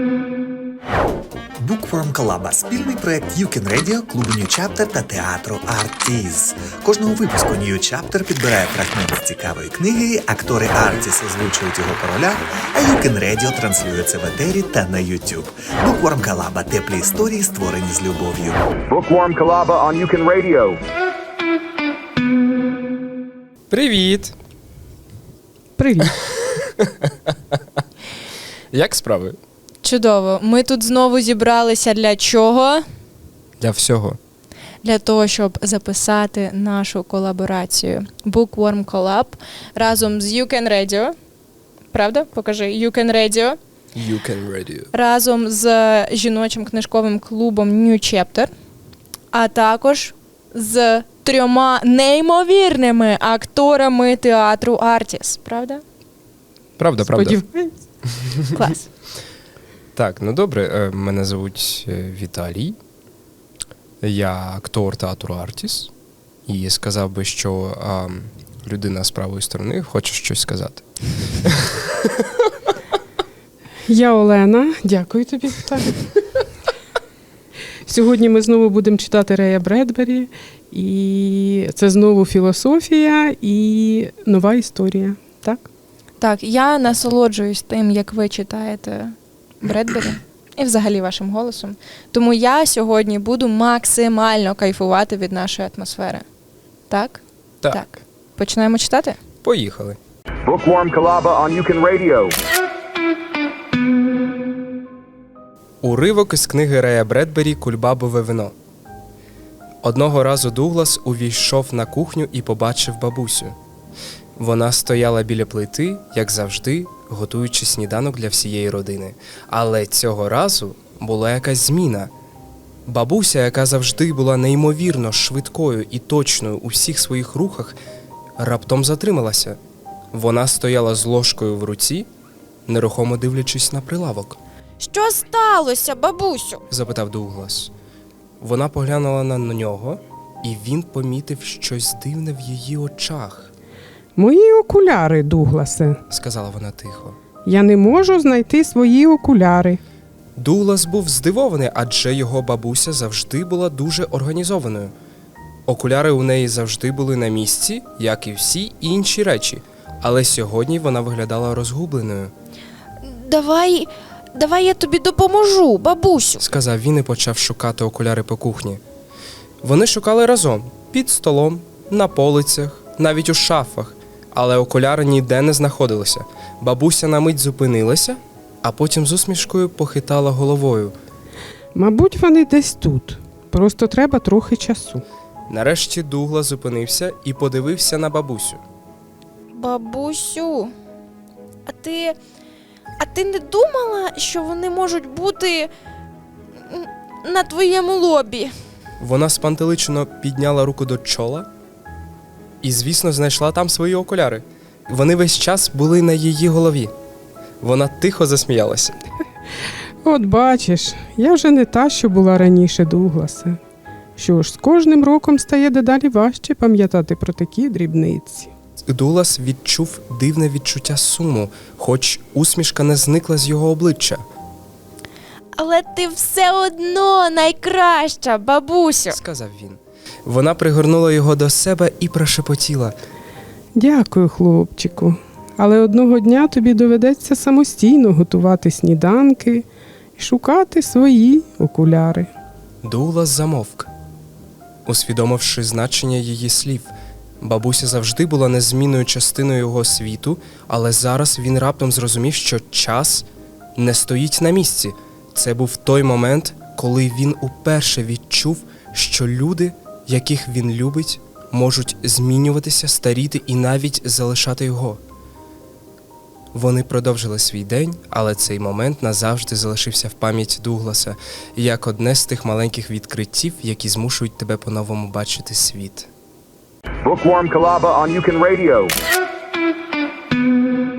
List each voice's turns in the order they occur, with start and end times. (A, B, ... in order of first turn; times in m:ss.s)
0:01.6-0:18.6 A
0:18.9-0:20.8 B
0:23.7-0:24.3 C
0:25.8-0:26.1 D
0:26.2-0:27.8 C
0:28.7-0:29.4 C
0:29.8-0:32.8 E
0:33.6-0:34.2 C
0:34.8-0:41.1 E
0:41.9-0:43.6 E
0:43.9-0:44.9 C
0:44.9-0:48.5 E
0:49.3-0:55.8 E
0:56.8-0:57.4 C
0:57.0-0:57.8 D
0:58.2-0:58.5 C
0:58.5-0:58.8 E
0:59.9-1:02.8 C
1:04.0-1:05.9 C
1:06.5-1:10.8 C
1:11.4-1:12.2 C
1:13.8-1:16.1 D
1:17.8-1:25.7 D
1:26.2-1:36.2 E
1:36.9-1:39.2 E
1:37.6-1:38.0 C
1:39.4-1:40.0 C
1:40.4-1:42.4 B
1:45.8-1:48.5 C
1:49.8-1:53.5 C
1:54.4-2:02.1 C
2:02.9-2:07.8 C
2:08.4-2:09.6 C
2:10.1-2:12.1 C
2:12.7-2:14.4 C
2:14.8-2:16.6 E
2:16.7-2:17.7 C
2:18.4-2:23.5 C
2:24.2-2:26.0 D
2:26.1-2:27.2 C
2:27.4-2:29.8 D
2:30.4-2:34.9 C
2:35.7-2:42.3 C
2:43.0-2:46.4 E
2:46.4-2:48.8 C
2:49.6-3:00.9 C
3:01.7-3:05.0 D
3:05.5-3:08.6 C
3:09.5-3:10.7 E
3:11.6-3:12.1 E
3:13.0-3:15.7 E
3:16.7-3:18.5 E
3:19.0-3:21.5 C
3:22.6-3:26.9 C
3:27.6-3:29.0 C
3:30.0-3:33.6 D
3:34.2-3:38.5 D
3:38.9-3:44.2 C
3:45.6-3:49.2 E
3:49.1-3:53.0 C
3:53.7-4:02.3 D
4:02.8-4:03.9 C
4:04.8-4:25.0 C
4:26.5-4:36.1 C
4:37.0-4:38.9 B